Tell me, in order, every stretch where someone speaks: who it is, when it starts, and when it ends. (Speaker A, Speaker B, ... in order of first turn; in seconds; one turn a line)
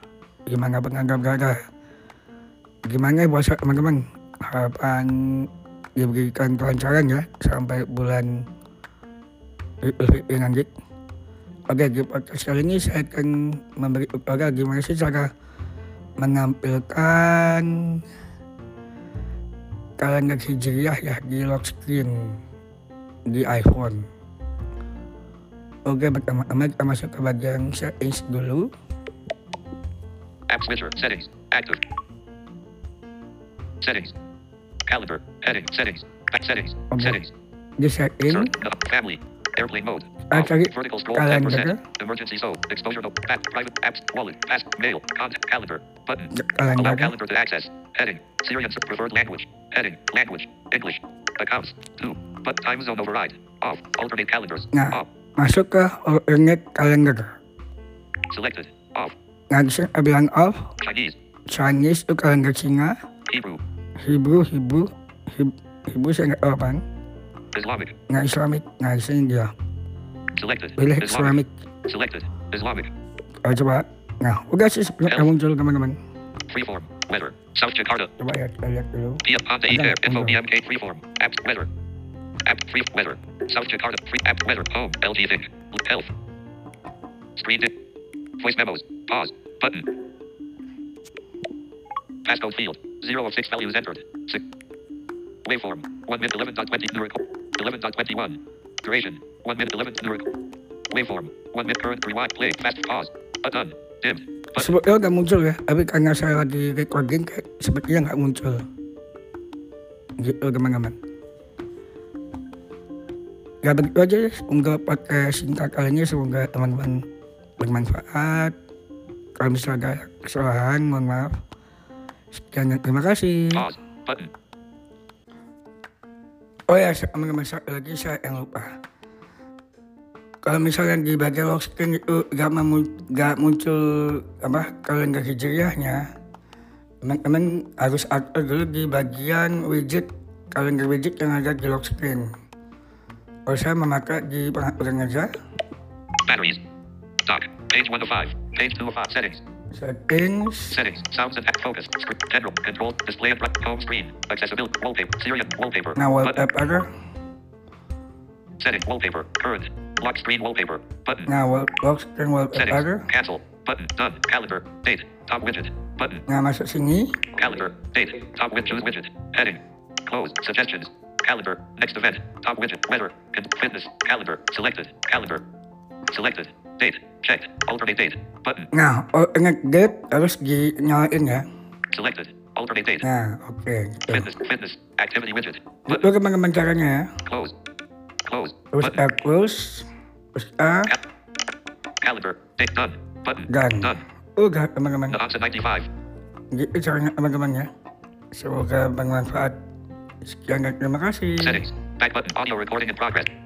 Speaker A: 0.5-1.6
Speaker A: 2.9-8.4
Speaker A: 9.8-10.7
Speaker A: 11.7-15.3
Speaker A: 16.2-18.0
Speaker A: 20.0-22.4
Speaker A: 23.3-24.1
Speaker A: 25.9-28.7
Speaker B: 30.5-31.8
Speaker B: 33.8-34.1
Speaker B: 34.9-37.3
Speaker A: 36.9-37.2
Speaker A: 37.8-38.5
Speaker B: 38.3-55.1
Speaker A: 40.3-41.8
Speaker A: 46.3-47.1
Speaker A: 54.7-57.4
Speaker B: 58.3-59.1
Speaker A: 59.5-60.7
Speaker B: 60.8-61.1
Speaker A: 61.5-63.0
Speaker B: 63.3-63.6
Speaker A: 64.0-66.8
Speaker B: 67.5-68.0
Speaker A: 68.1-69.5
Speaker B: 70.3-72.9
Speaker A: 70.8-71.5
Speaker A: 73.4-76.0
Speaker B: 75.0-75.3
Speaker B: 76.5-78.1
Speaker A: 78.2-80.4
Speaker B: 79.2-81.7
Speaker B: 82.4-86.1
Speaker B: 87.3-87.7
Speaker B: 88.4-89.9
Speaker B: 92.2-94.4
Speaker B: 95.4-100.3
Speaker B: 100.9-104.7
Speaker A: 104.5-108.6
Speaker A: 110.2-111.0
Speaker A: 113.6-117.0
Speaker A: 117.6-118.5
Speaker A: 119.4-121.3
Speaker A: 122.3-123.7
Speaker B: 123.5-124.3
Speaker A: 126.7-128.7
Speaker A: 130.4-136.1
Speaker A: 137.0-142.3
Speaker A: 143.4-145.3
Speaker B: 146.2-146.6
Speaker B: 147.2-149.4
Speaker A: 149.7-150.8
Speaker B: 150.7-156.5
Speaker A: 155.9-156.9
Speaker B: 158.6-161.3
Speaker A: 161.2-163.1
Speaker B: 162.5-166.2
Speaker A: 166.3-167.2
Speaker B: 167.3-175.4
Speaker B: 176.1-178.7
Speaker A: 178.7-181.4
Speaker B: 181.9-183.1
Speaker A: 183.0-184.3
Speaker B: 184.1-186.1
Speaker A: 185.8-187.1
Speaker B: 187.2-187.5
Speaker B: 188.2-189.0
Speaker A: 188.7-190.9
Speaker B: 192.0-194.0
Speaker A: 193.5-195.2
Speaker B: 195.1-195.9
Speaker A: 196.5-197.7
Speaker A: 198.3-199.6
Speaker A: 200.2-201.7
Speaker B: 201.4-203.3